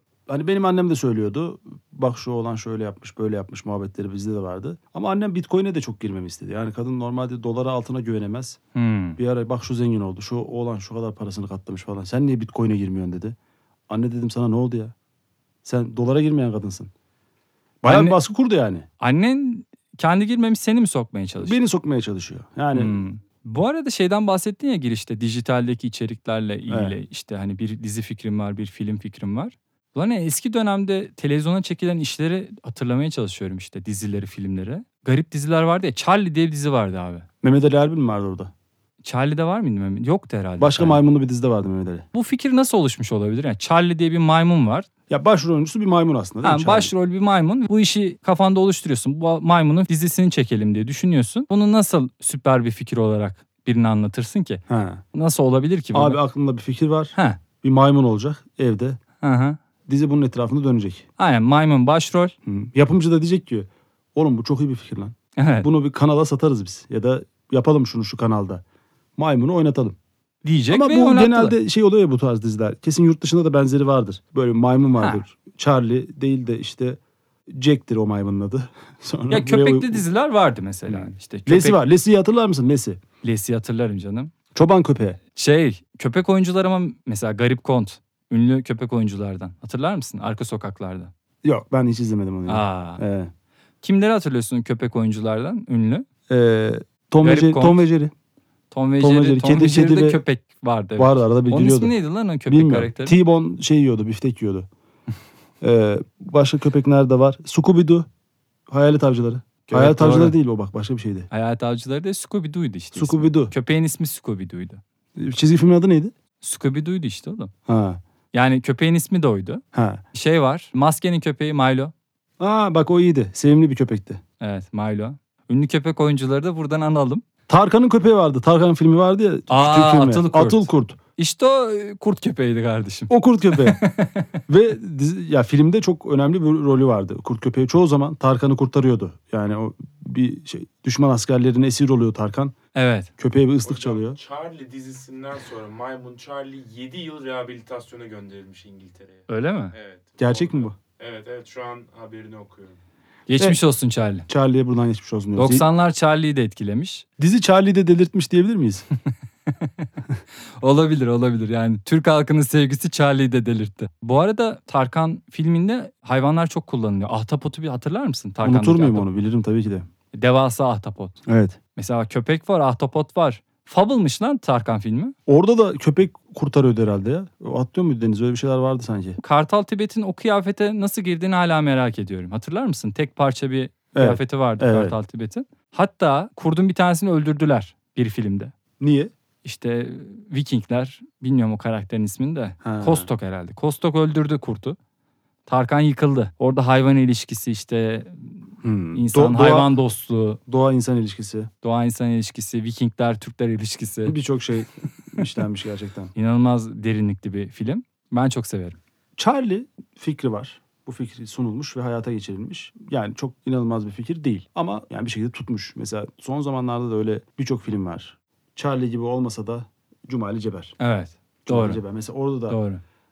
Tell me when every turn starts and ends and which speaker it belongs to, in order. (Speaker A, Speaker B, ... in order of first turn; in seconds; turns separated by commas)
Speaker A: 0.3-8.6, Speaker B: 8.7-9.2, Speaker A: 9.2-13.3, Speaker A: 13.9-14.9, Speaker A: 15.6-16.9, Speaker A: 17.8-18.8, Speaker B: 17.8-18.2, Speaker B: 19.0-21.6, Speaker A: 21.4-23.0, Speaker B: 22.7-37.2, Speaker A: 26.7-27.0, Speaker A: 37.4-38.5, Speaker B: 39.0-41.0, Speaker A: 40.6-42.0, Speaker B: 42.1-44.9, Speaker A: 45.1-46.9, Speaker B: 46.4-54.6, Speaker A: 54.7-55.0, Speaker B: 55.1-56.2, Speaker A: 55.9-59.0, Speaker B: 57.1-57.4, Speaker B: 59.2-59.6, Speaker A: 59.9-61.0, Speaker B: 61.2-62.3, Speaker A: 62.5-68.6, Speaker B: 65.3-65.7, Speaker A: 69.2-70.0, Speaker B: 70.4-71.6, Speaker A: 70.7-77.0, Speaker A: 77.5-80.0, Speaker B: 79.3-81.8, Speaker A: 80.9-83.0, Speaker B: 83.2-84.3, Speaker A: 84.5-85.2, Speaker B: 85.3-91.1, Speaker A: 91.4-93.3, Speaker B: 92.5-93.0, Speaker B: 93.8-96.1, Speaker A: 96.3-98.1, Speaker B: 97.2-97.8, Speaker B: 98.7-103.2, Speaker A: 99.0-100.2, Speaker A: 101.0-101.9, Speaker A: 102.5-104.7, Speaker A: 105.6-108.0, Speaker A: 108.7-111.3, Speaker B: 109.7-110.3, Speaker B: 111.3-114.8, Speaker A: 112.9-113.5, Speaker A: 115.2-116.1, Speaker B: 116.4-117.5, Speaker A: 117.7-118.0, Speaker B: 118.3-119.6, Speaker A: 119.7-120.0, Speaker B: 120.1-121.9, Speaker A: 122.4-124.2, Speaker B: 124.4-127.2, Speaker A: 127.5-131.0, Speaker B: 129.5-134.3, Speaker A: 133.1-133.8, Speaker A: 134.5-142.5, Speaker B: 142.7-143.1, Speaker A: 143.2-144.2, Speaker C: 143.6-152.8, Speaker B: 149.3-149.7, Speaker A: 150.2-150.8, Speaker B: 153.3-154.3, Speaker A: 154.3-155.7, Speaker B: 155.4-157.0, Speaker A: 157.2-158.8, Speaker B: 159.5-159.9, Speaker B: 160.6-169.1, Speaker A: 168.4-169.8, Speaker B: 170.1-171.2, Speaker A: 171.3-171.6, Speaker B: 171.7-175.2, Speaker A: 175.3-179.2, Speaker B: 179.2-188.5, Speaker A: 183.9-185.0, Speaker A: 188.8-189.1, Speaker B: 189.4-194.8, Speaker A: 192.6-193.1, Speaker B: 195.4-200.4, Speaker A: 198.6-199.7, Speaker A: 200.5-201.5, Speaker B: 201.6-204.2, Speaker A: 204.0-206.1, Speaker B: 206.1-208.8, Speaker A: 209.2-220.8, Speaker B: 220.8-221.8, Speaker A: 221.4-222.6, Speaker B: 222.5-222.8